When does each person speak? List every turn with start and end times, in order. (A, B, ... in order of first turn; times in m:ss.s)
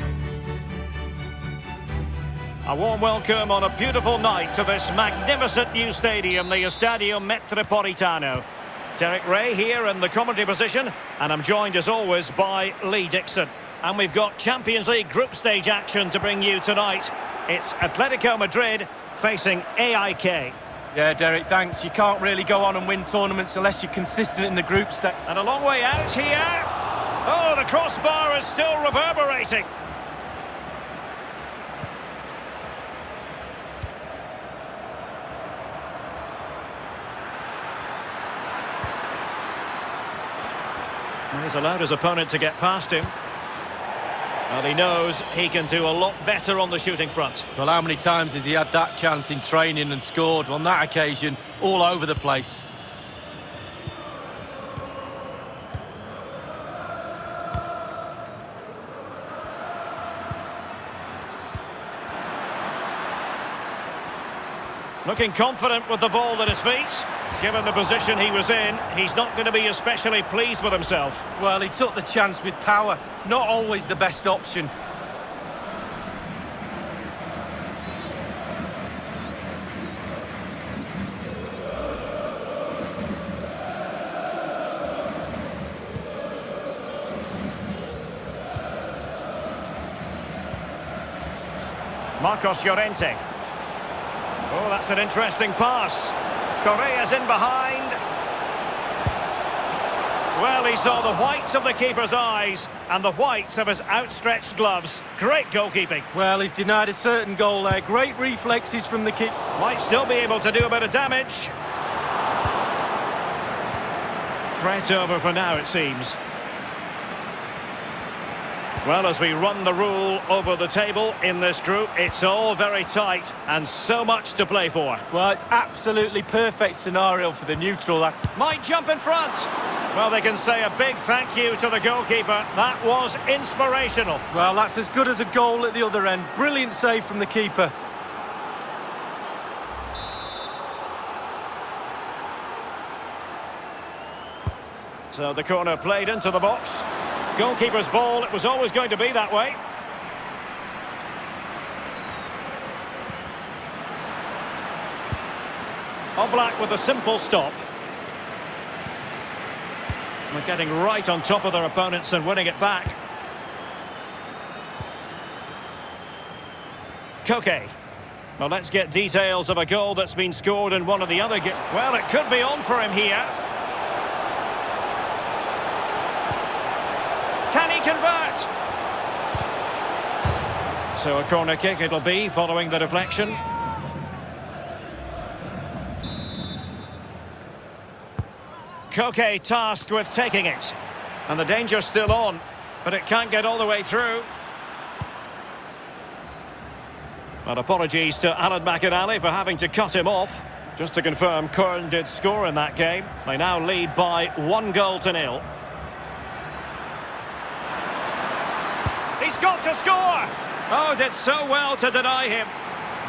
0:02.6-0:08.4 A
0:09.0-0:20.6 A
0:20.9-0:25.1 B
0:25.2-0:26.7 A
0:27.2-0:29.7 A
0:41.3-0:43.1 A
0:44.5-0:47.4 A
0:47.6-0:52.6 B
1:05.0-1:11.2 A
1:11.4-1:14.7 B
1:32.2-1:33.2 A
1:34.5-1:38.0 A
1:40.3-1:46.1 A
1:46.1-1:49.3 B
1:49.6-1:51.5 A
1:54.5-1:56.2 A
1:58.8-2:05.0 A
2:05.1-2:08.2 B
2:08.3-2:14.2 A
2:14.3-2:17.7 B
2:25.1-2:29.6 A
2:36.2-2:37.6 A
2:40.3-2:43.0 A
2:47.2-2:47.7 A
2:48.4-2:53.3 A
2:57.5-2:58.5 A
3:00.9-3:03.4 A
3:08.9-3:10.8 A
3:11.3-3:14.3 A
3:17.4-3:25.4 A
3:29.2-3:32.5 A